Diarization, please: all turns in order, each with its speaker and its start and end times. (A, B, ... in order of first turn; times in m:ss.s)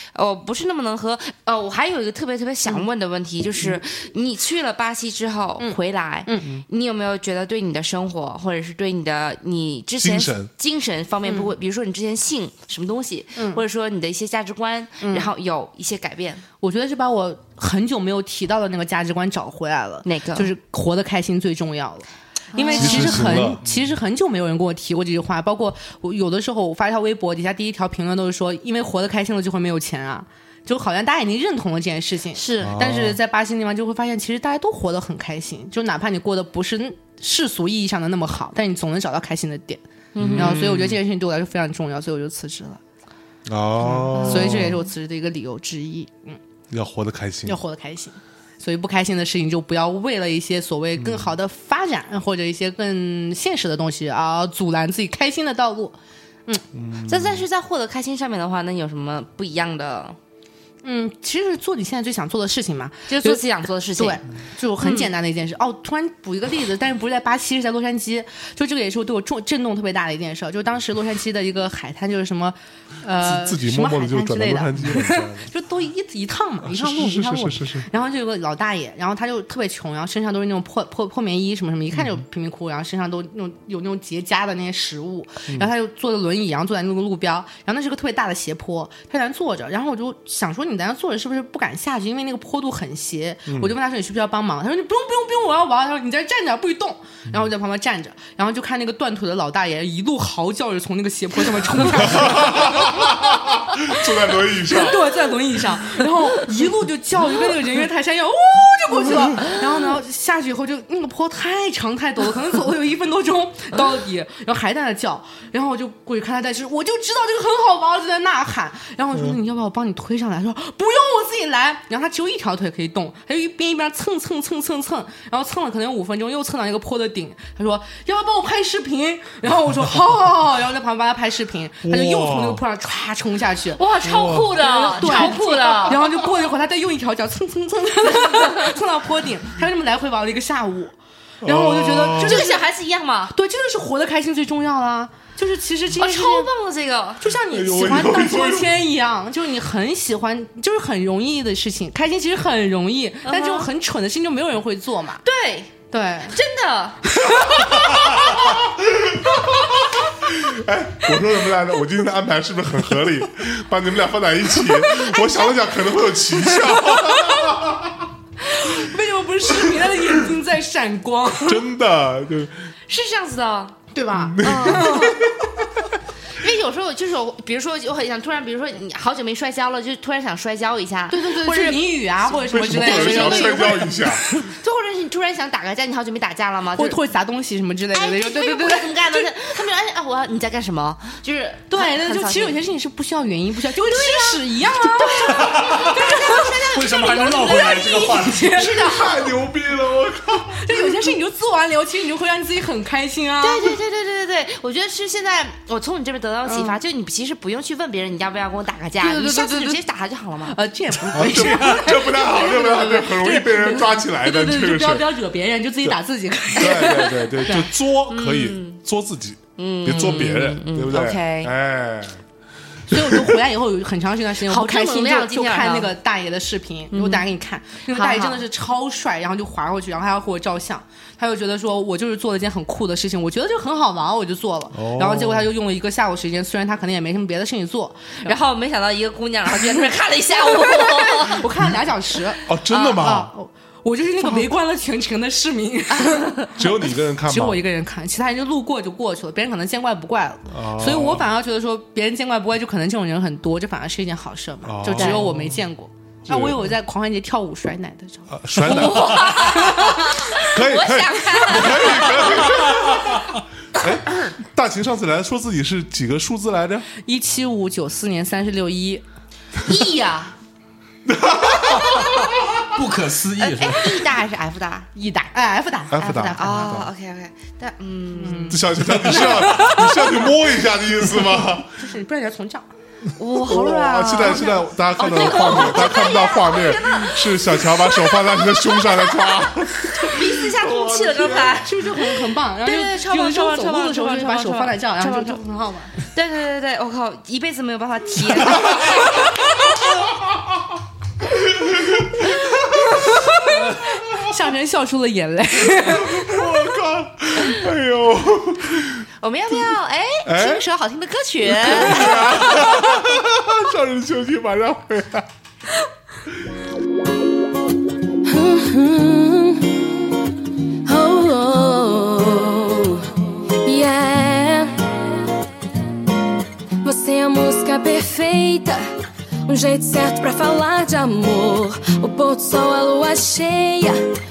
0:00.2-0:16.4 A
0:05.6-0:06.5 B
0:10.0-0:10.5 C
0:11.3-0:11.5 B
0:15.0-0:15.3 B
0:16.6-0:39.8 B
0:20.0-0:20.5 A
0:22.5-0:23.4 A
0:22.8-0:23.9 C
0:32.4-0:32.8 A
0:32.6-0:33.2 C
0:40.1-0:40.6 A
0:40.2-0:41.0 C
0:40.4-0:42.8 B
0:43.5-0:44.8 C
0:43.8-0:46.4 B
0:44.2-0:44.7 A
0:46.7-0:47.6 C
0:47.5-0:56.0 B
0:51.0-0:51.4 C
0:56.7-0:57.5 C
0:57.1-1:00.2 A
1:00.8-1:03.4 B
1:03.1-1:04.2 A
1:04.0-1:44.0 B
1:04.8-1:05.1 A
1:13.2-1:15.5 C
1:16.6-1:17.9 C
1:33.5-1:33.7 C
1:41.9-1:45.3 C
1:44.6-2:14.0 B
2:11.8-2:12.6 C
2:13.8-2:16.0 A
2:14.0-2:14.6 C
2:14.5-2:20.9 B
2:21.4-2:22.4 C
2:21.4-2:22.6 B
2:22.2-2:23.3 A
2:23.3-2:26.5 B
2:26.0-2:27.2 A
2:27.2-2:35.2 B
2:27.5-2:28.8 C
2:33.3-2:33.7 A
2:35.2-2:37.0 A
2:35.9-2:36.4 B
2:37.1-2:38.0 B
2:37.4-2:48.1 C
2:37.9-2:38.3 A
2:46.5-2:47.4 B
2:48.4-2:51.6 B
2:51.4-2:52.7 C
2:52.9-2:53.8 A
2:53.9-2:55.2 B
2:54.2-2:55.5 C
2:54.4-2:55.2 A
2:56.3-3:01.9 A
3:01.1-3:04.5 B
3:02.5-3:04.2 C
3:02.7-3:03.7 A
3:04.5-3:07.0 A
3:06.7-3:09.3 B
3:07.9-3:12.6 A
3:11.7-3:19.3 B
3:13.8-3:17.9 A
3:15.3-3:16.0 D
3:16.6-3:18.6 D
3:18.5-3:21.1 C
3:20.6-3:23.8 B
3:23.4-3:30.6 A
3:26.5-3:26.8 B
3:29.0-3:29.8 B
3:30.5-3:37.7 B
3:31.1-3:35.2 C
3:36.6-3:42.2 C
3:38.1-3:38.8 A
3:39.6-3:41.5 A
3:42.9-3:58.4 B
3:44.5-3:45.9 A
3:46.9-3:47.3 A
3:47.9-3:48.4 A
3:54.7-3:55.5 C
3:58.2-4:01.4 A
4:00.5-4:06.6 B
4:02.5-4:03.3 C
4:06.0-4:06.5 A
4:06.6-4:07.6 C
4:07.2-4:18.4 B
4:10.5-4:11.3 C
4:14.6-4:15.7 C
4:16.2-4:16.7 C
4:18.3-4:19.8 C
4:18.6-4:22.8 A
4:19.1-4:20.0 B
4:20.4-4:23.2 C
4:23.7-4:26.9 C
4:27.0-4:29.0 B
4:29.7-4:30.3 A
4:31.0-4:32.6 C
4:32.7-4:34.1 D
4:33.4-4:34.9 A
4:35.0-4:36.8 B
4:35.9-4:36.9 C
4:36.0-4:38.6 A
4:38.2-4:40.2 B
4:38.5-4:41.8 C
4:41.8-4:42.7 B
4:43.2-4:49.3 A
4:43.4-4:51.6 C
4:44.2-4:46.1 B
4:50.0-4:55.4 A
4:51.6-4:55.9 B
4:56.0-4:59.9 A
4:58.6-4:59.0 C
5:00.2-5:00.7 C
5:01.3-5:04.2 C
5:02.7-5:06.5 B
5:05.8-5:09.1 C
5:09.2-5:12.8 A
5:10.2-5:10.6 C
5:11.4-5:15.3 C
5:18.3-5:19.8 E
5:20.9-5:23.1 E
5:23.6-5:24.9 E
5:26.8-5:28.8 E
5:29.5-5:34.0 E